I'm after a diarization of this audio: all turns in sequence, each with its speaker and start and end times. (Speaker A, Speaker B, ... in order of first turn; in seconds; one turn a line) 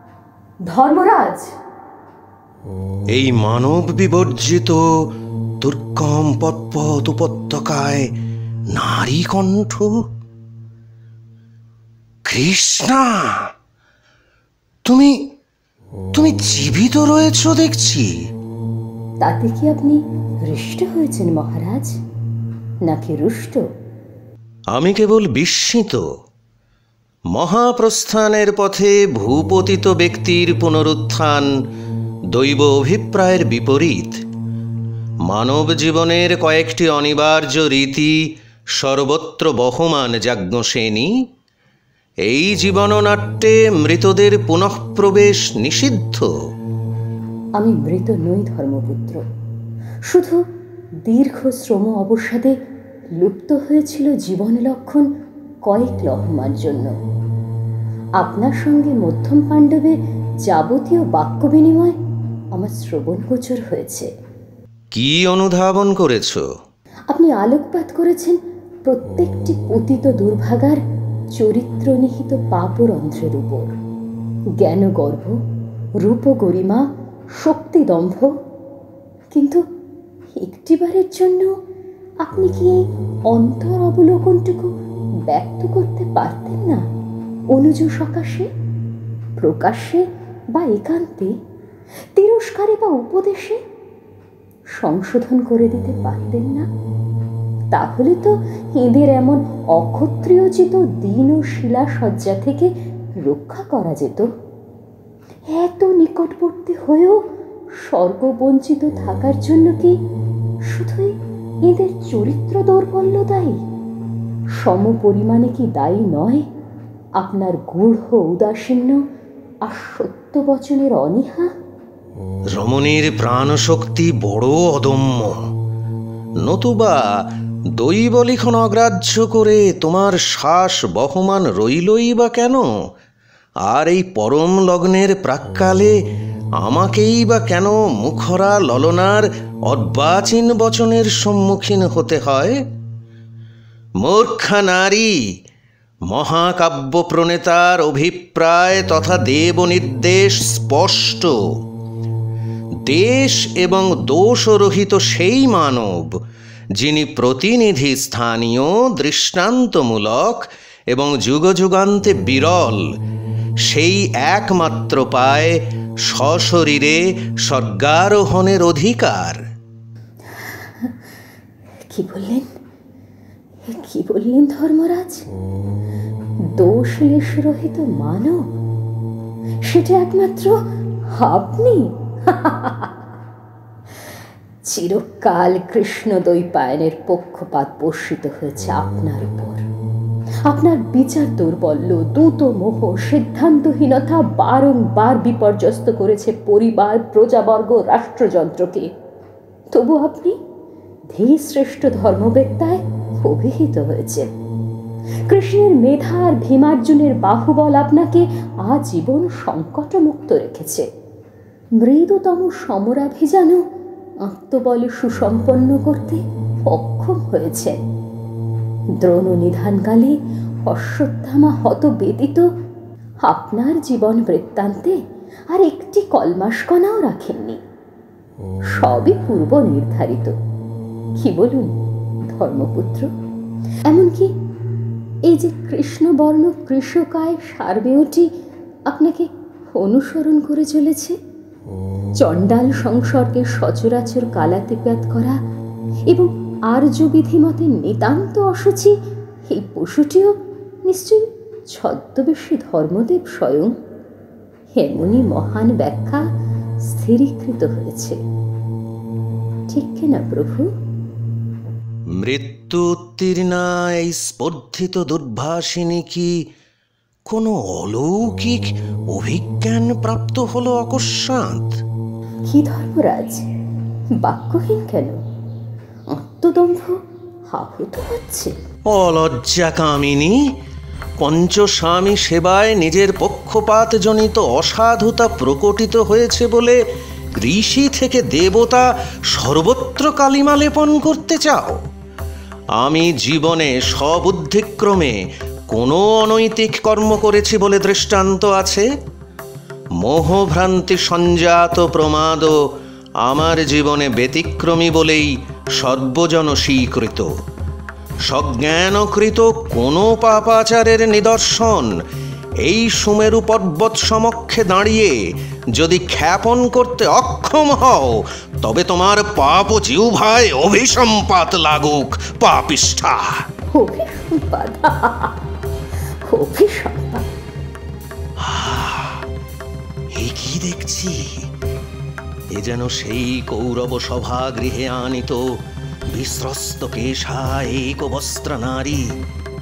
Speaker A: 0.7-1.5
Speaker B: 3.1-4.8
Speaker B: 5.6-8.1
Speaker B: 8.7-10.0
Speaker B: 12.3-13.5
Speaker B: 14.9-15.2
Speaker B: 16.1-18.2
Speaker A: 19.2-22.0
Speaker A: 22.9-23.6
Speaker B: 24.7-26.1
Speaker B: 27.4-31.5
Speaker B: 32.3-34.2
Speaker B: 35.3-38.2
Speaker B: 38.8-41.1
Speaker B: 42.3-46.3
Speaker A: 47.6-49.2
Speaker A: 50.1-50.4
Speaker A: 51.1-52.5
Speaker A: 53.2-55.1
Speaker A: 55.7-56.9
Speaker A: 58.2-60.0
Speaker A: 60.5-62.0
Speaker A: 62.6-64.1
Speaker B: 64.9-66.5
Speaker A: 67.1-70.8
Speaker A: 71.4-73.7
Speaker A: 74.6-75.4
Speaker A: 76.0-76.9
Speaker A: 77.4-78.3
Speaker A: 79.3-79.6
Speaker A: 80.4-81.5
Speaker A: 82.2-84.7
Speaker A: 85.3-86.8
Speaker A: 87.5-88.5
Speaker A: 89.4-91.3
Speaker A: 92.2-93.6
Speaker A: 94.8-96.7
Speaker A: 97.7-102.7
Speaker A: 103.2-104.3
Speaker A: 105.5-107.2
Speaker A: 107.8-110.0
Speaker A: 110.7-111.2
Speaker A: 111.7-113.6
Speaker A: 114.6-116.5
Speaker A: 117.2-119.0
Speaker A: 119.7-121.5
Speaker B: 122.5-125.4
Speaker B: 126.4-127.0
Speaker B: 127.8-132.7
Speaker B: 133.7-135.9
Speaker B: 136.6-142.6
Speaker B: 144.0-145.2
Speaker B: 146.1-151.4
Speaker B: 152.9-156.1
Speaker B: 156.8-162.9
Speaker B: 163.7-169.4
Speaker A: 170.3-170.9
Speaker A: 171.9-172.5
Speaker A: 173.7-175.2
Speaker A: 176.6-178.4
Speaker A: 179.7-180.6
Speaker A: 181.2-182.9
Speaker A: 184.7-189.6
Speaker A: 190.5-198.9
Speaker A: 199.7-200.4
Speaker A: 201.1-204.3
Speaker A: 205.3-210.9
Speaker A: 211.8-213.6
Speaker A: 214.2-217.8
Speaker A: 219.0-222.5
Speaker A: 223.3-225.0
Speaker A: 225.5-227.6
Speaker A: 228.8-230.3
Speaker A: 231.2-231.7
Speaker A: 232.3-233.1
Speaker A: 233.9-234.3
Speaker A: 235.3-238.3
Speaker A: 238.9-241.2
Speaker A: 242.2-245.4
Speaker A: 246.1-248.9
Speaker A: 249.5-250.3
Speaker A: 250.9-253.7
Speaker A: 254.8-256.2
Speaker A: 256.9-258.2
Speaker A: 259.7-260.7
Speaker B: 262.2-266.3
Speaker B: 267.3-271.8
Speaker A: 272.5-273.5
Speaker A: 274.2-275.2
Speaker A: 276.1-277.0
Speaker A: 277.5-278.5
Speaker B: 278.9-280.4
Speaker B: 281.2-286.8
Speaker B: 287.4-291.8
Speaker B: 292.8-298.9
Speaker B: 300.0-302.6
Speaker B: 303.2-307.3
Speaker B: 308.3-311.9
Speaker B: 312.6-315.2
Speaker B: 315.8-323.4
Speaker A: 323.7-325.4
Speaker A: 326.3-327.3
Speaker B: 328.4-329.2
Speaker B: 330.1-331.5
Speaker B: 332.6-335.4
Speaker B: 336.1-339.1